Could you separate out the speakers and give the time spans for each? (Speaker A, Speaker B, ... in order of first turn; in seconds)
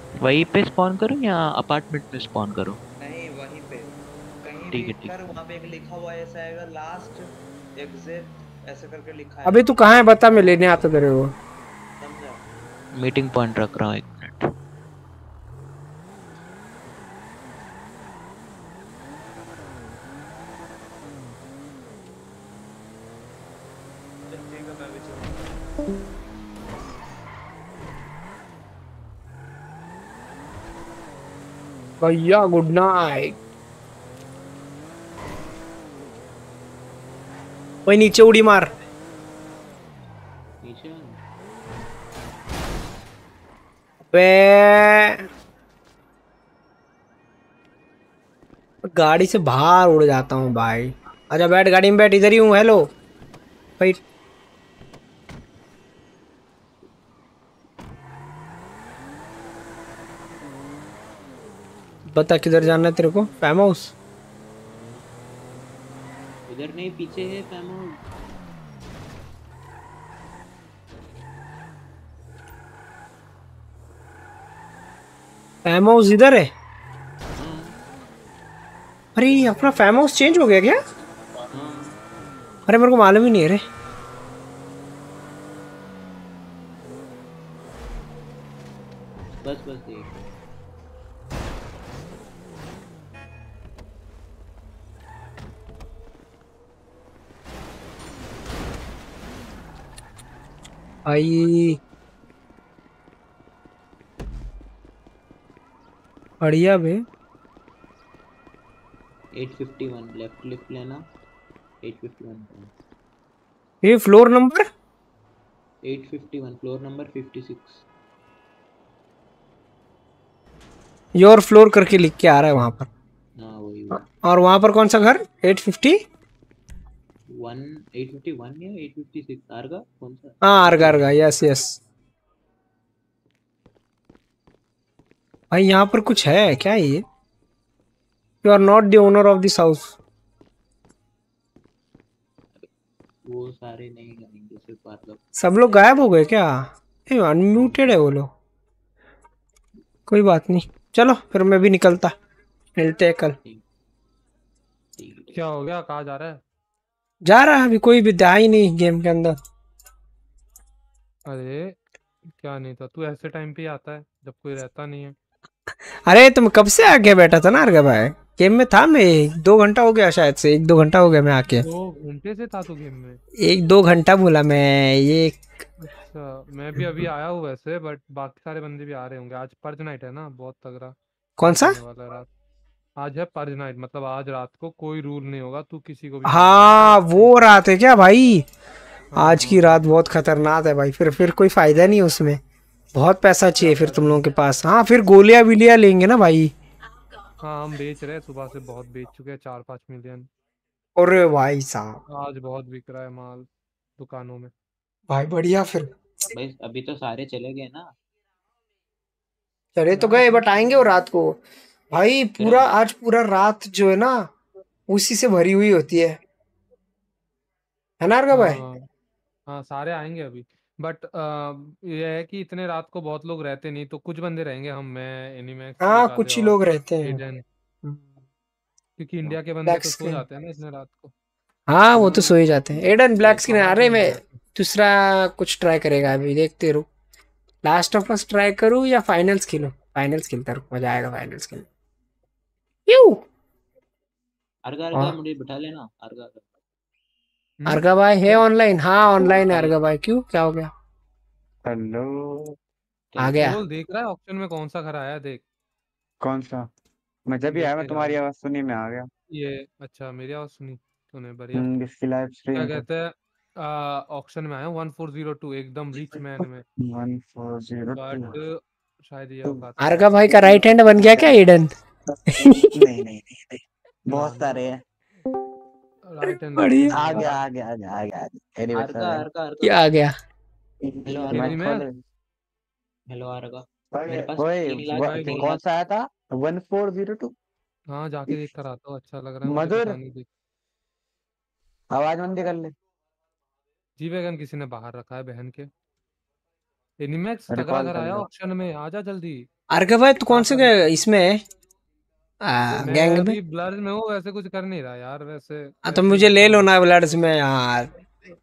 Speaker A: 0.2-2.8, 4.7-5.1, 13.0-14.4, 40.6-41.2, 66.5-68.0, 77.4-77.7, 81.5-82.0, 89.4-90.3, 109.3-111.0, 111.8-112.7, 115.8-117.8, 123.4-124.1, 127.3-131.2, 143.3-145.2, 155.0-155.4, 206.3-207.9, 212.4-212.8, 244.6-246.5, 249.4-249.8, 253.1-253.4, 274.1-274.6, 278.7-279.8, 281.1-281.6, 283.1-285.7
Speaker B: 3.0-7.2, 7.8-9.7, 12.0-12.4, 24.2-25.5
Speaker C: 9.4-11.3, 32.0-33.4, 37.9-38.7, 44.1-45.2, 48.8-52.9, 62.1-63.9, 75.7-76.5, 79.2-80.8, 82.7-83.6, 101.1-101.8, 106.4-107.0, 113.8-114.7, 121.2-122.9, 123.9-126.0, 130.4-131.8, 135.5-137.0, 138.4-139.9, 145.3-148.3, 150.1-152.1, 152.8-153.3, 157.2-159.4, 166.1-171.7, 173.4-175.4, 181.4-181.8, 186.2-188.4, 189.2-192.4, 192.9-196.5, 201.0-202.0, 205.1-205.9, 209.8-211.4, 211.9-214.3, 214.9-216.2, 218.0-218.6, 225.8-227.2, 229.6-230.2, 231.7-236.8, 237.6-241.7, 242.9-243.2, 247.7-250.7, 253.2-253.6, 269.8-271.7, 272.3-272.7, 276.2-277.1, 279.6-280.1, 299.7-301.4, 302.4-303.4, 305.9-307.9
Speaker D: 155.3-156.4, 161.2-161.7, 162.3-165.2, 171.5-173.2, 175.8-180.9, 181.4-182.3, 183.0-187.5, 189.1-189.8, 193.6-194.2, 197.4-200.3, 202.1-203.5, 204.0-204.5, 210.0-210.3, 218.3-218.8, 219.5-227.4, 229.0-231.1, 231.9-232.4, 233.2-234.2, 247.6-247.8, 253.4-255.4, 257.5-258.2, 259.3-261.6, 262.5-266.6, 267.9-270.3, 276.1-277.4, 281.3-281.8, 284.9-285.5, 287.9-290.2, 294.0-295.7, 297.0-299.5, 300.3-300.9, 302.8-306.7
Speaker E: 251.6-252.5, 256.2-256.7, 257.3-259.1, 261.5-262.8, 266.8-268.3, 270.3-271.3, 272.7-274.8, 277.0-279.2, 280.8-281.9, 283.9-287.3, 289.4-289.9, 291.9-292.7, 297.5-298.3